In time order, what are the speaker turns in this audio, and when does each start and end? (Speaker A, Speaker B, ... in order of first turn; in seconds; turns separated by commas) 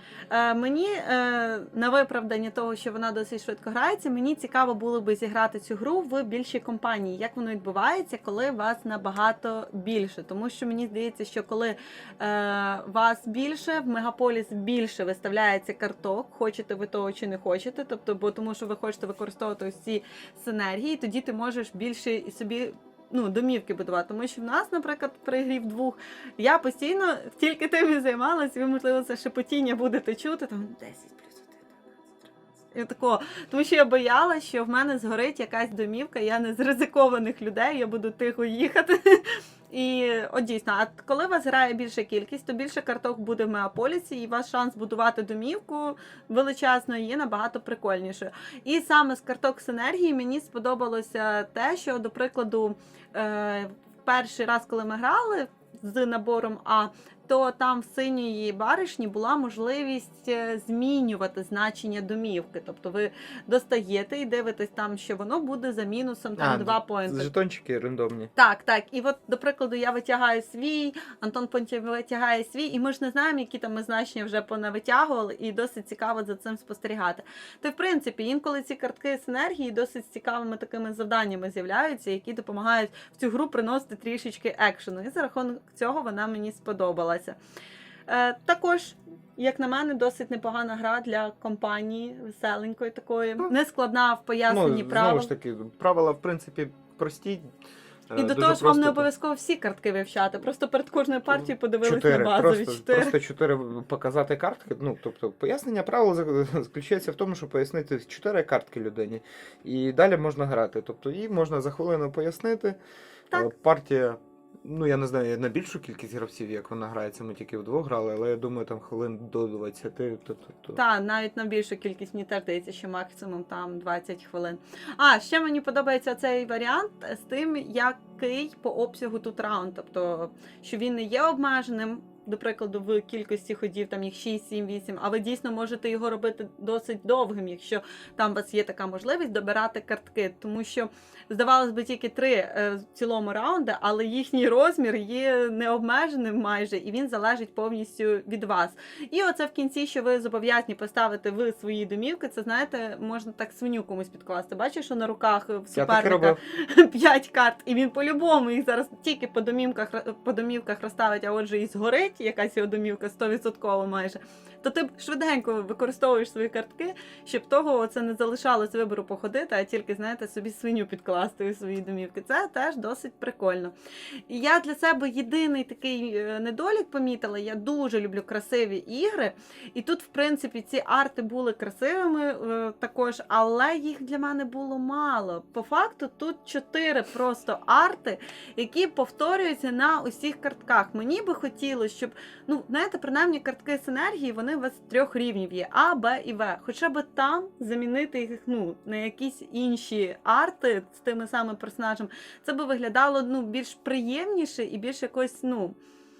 Speaker A: 0.3-31.7, Speaker A: 32.7-67.3, Speaker B: 66.3-68.3, Speaker A: 68.3-87.4, Speaker A: 88.1-95.3, Speaker B: 94.5-97.5, Speaker B: 98.1-99.1, Speaker A: 98.2-103.2, Speaker B: 101.8-112.8, Speaker B: 113.3-120.8, Speaker A: 120.7-173.7, Speaker B: 155.7-156.4, Speaker A: 174.3-205.8